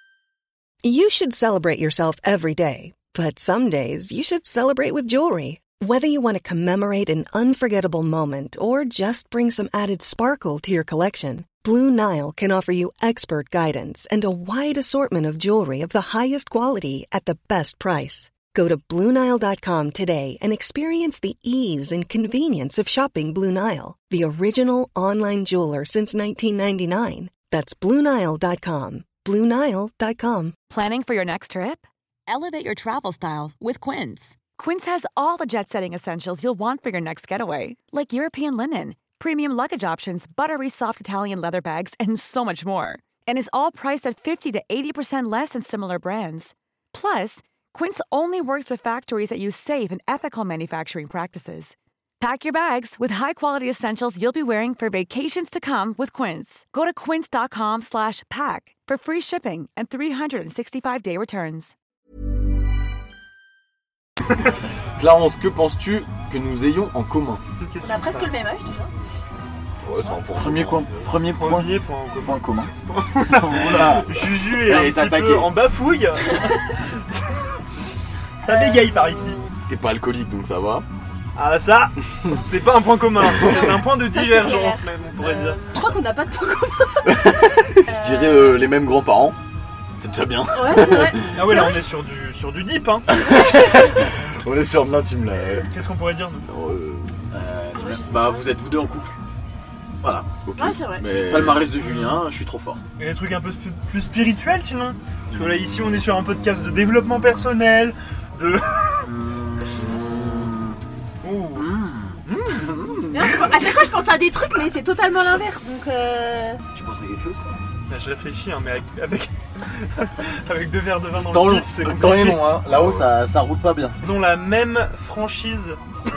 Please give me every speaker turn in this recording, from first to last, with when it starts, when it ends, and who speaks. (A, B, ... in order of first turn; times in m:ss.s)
0:00.8-0:30.6 A
0:30.7-1:01.8 B
1:05.0-1:07.4 C
1:07.6-1:08.3 D
1:07.8-1:08.9 E
1:09.8-1:11.1 C
1:10.4-1:12.7 F
1:11.3-1:17.5 D
1:13.3-1:15.5 F
1:18.4-1:19.4 D
1:19.7-1:20.8 C
1:21.4-1:25.6 D
1:23.4-1:28.6 E
1:27.0-1:29.4 C
1:30.0-1:31.3 C
1:30.5-1:31.8 E
1:31.4-1:33.1 D
1:33.1-1:35.7 C
1:33.3-1:33.7 E
1:35.7-1:36.4 D
1:36.5-1:37.2 C
1:37.3-1:39.2 F
1:37.8-1:38.5 E
1:40.0-1:40.3 F
1:40.5-1:41.7 C
1:40.6-1:41.0 E
1:41.1-1:42.8 F
1:43.0-1:49.1 D
1:49.0-1:50.8 F
1:51.2-1:51.7 D
1:51.5-1:53.4 F
1:52.2-1:52.7 D
1:53.1-1:56.6 E
1:56.7-1:57.5 F
1:57.9-2:02.4 D
2:01.2-2:04.0 F
2:02.7-2:03.0 C
2:04.0-2:05.8 D